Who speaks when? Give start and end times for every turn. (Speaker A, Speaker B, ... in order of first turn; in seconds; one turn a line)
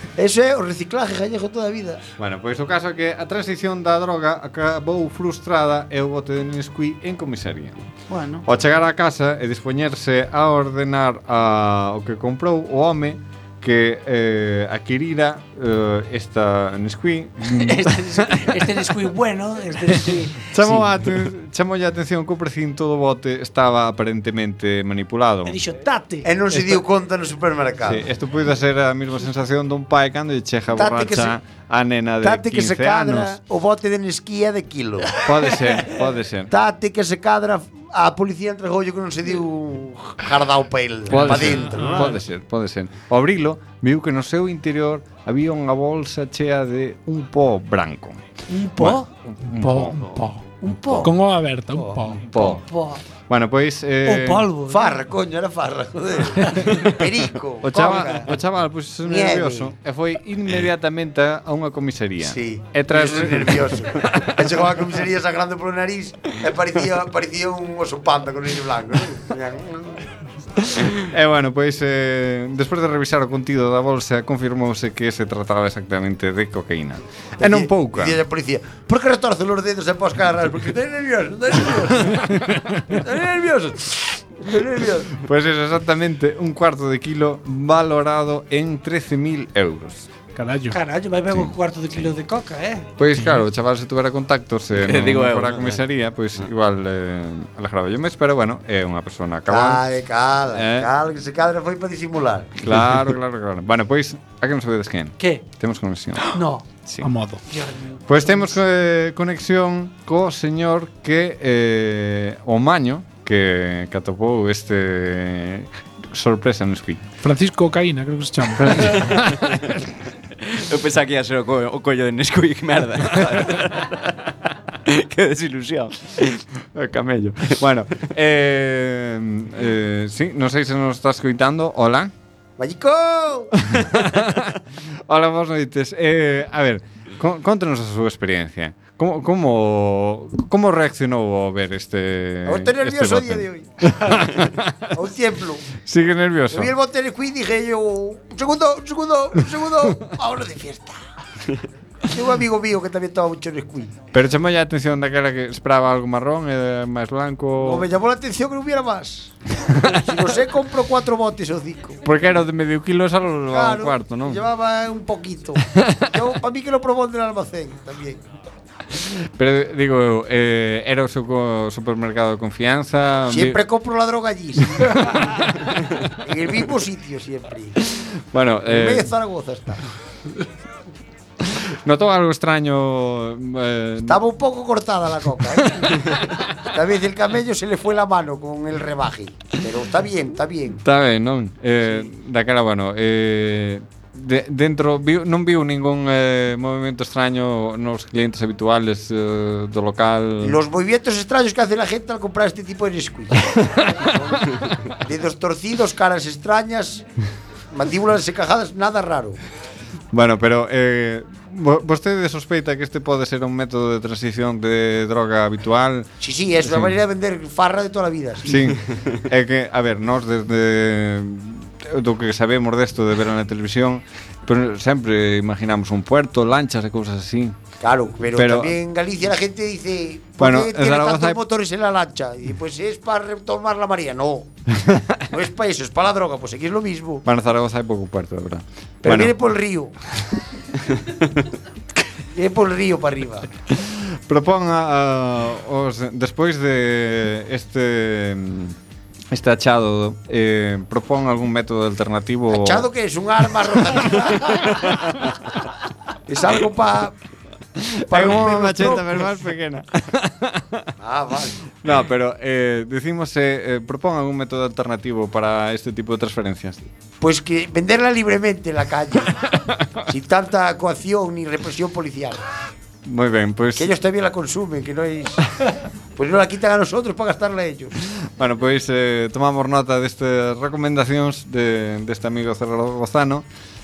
Speaker A: 0.2-2.0
Speaker B: 2.2-7.8
Speaker C: 8.1-8.4
Speaker B: 8.4-18.9
Speaker C: 17.5-20.5
Speaker B: 20.5-25.6
Speaker C: 25.4-26.3
Speaker A: 26.2-28.0
Speaker B: 26.5-26.8
Speaker B: 27.8-33.3
Speaker A: 30.7-31.3
Speaker A: 32.2-35.2
Speaker B: 35.2-36.5
Speaker A: 36.5-42.2
Speaker B: 41.1-48.2
Speaker C: 48.5-49.1
Speaker B: 48.8-50.1
Speaker D: 49.5-50.4
Speaker C: 50.6-51.1
Speaker D: 51.0-52.2
Speaker B: 52.3-52.6
Speaker C: 52.3-53.0
Speaker B: 53.3-54.5
Speaker C: 54.0-55.0
Speaker A: 54.7-58.3
Speaker B: 57.6-64.3
Speaker A: 59.0-59.7
Speaker A: 62.2-70.0
Speaker B: 70.9-78.2
Speaker A: 77.4-85.1
Speaker B: 82.1-82.8
Speaker B: 85.2-90.1
Speaker D: 90.3-90.8
Speaker C: 90.7-92.9
Speaker B: 93.0-99.9
Speaker E: 94.7-95.8
Speaker A: 99.5-102.5
Speaker B: 100.5-100.9
Speaker B: 102.6-106.3
Speaker C: 106.3-106.7
Speaker D: 107.0-107.4
Speaker C: 107.5-108.6
Speaker B: 108.1-117.0
Speaker D: 117.2-119.0
Speaker B: 118.6-119.4
Speaker E: 118.9-119.2
Speaker E: 120.5-123.9
Speaker E: 124.8-126.1
Speaker B: 126.7-132.1
Speaker A: 132.6-133.5
Speaker B: 133.7-134.5
Speaker B: 135.1-144.8
Speaker A: 142.4-145.7
Speaker B: 145.8-146.7
Speaker A: 146.5-151.0
Speaker A: 152.1-153.9
Speaker B: 154.1-157.9
Speaker A: 157.6-162.0
Speaker B: 162.0-164.4
Speaker A: 163.5-168.2
Speaker B: 169.4-173.6
Speaker A: 173.3-175.3
Speaker A: 176.2-177.8
Speaker B: 178.3-179.1
Speaker A: 178.7-179.8
Speaker B: 181.8-184.2
Speaker A: 184.1-190.8
Speaker B: 190.8-200.6
Speaker A: 200.4-207.0
Speaker A: 207.7-209.4
Speaker B: 210.1-216.9
Speaker A: 216.2-218.7
Speaker B: 218.4-227.5
Speaker A: 227.8-234.5
Speaker B: 228.3-228.8
Speaker B: 230.4-231.4
Speaker A: 235.3-237.2
Speaker B: 237.2-239.3
Speaker A: 239.0-239.9
Speaker A: 242.3-243.5
Speaker B: 243.8-248.8
Speaker B: 249.3-252.9
Speaker A: 252.5-255.0
Speaker A: 256.3-257.1
Speaker B: 258.0-260.9
Speaker A: 258.1-259.3
Speaker A: 261.0-261.6
Speaker B: 261.8-266.9
Speaker A: 267.2-269.4
Speaker A: 270.1-272.4
Speaker B: 273.0-273.9
Speaker A: 273.8-275.5
Speaker A: 276.1-277.9
Speaker B: 278.4-283.4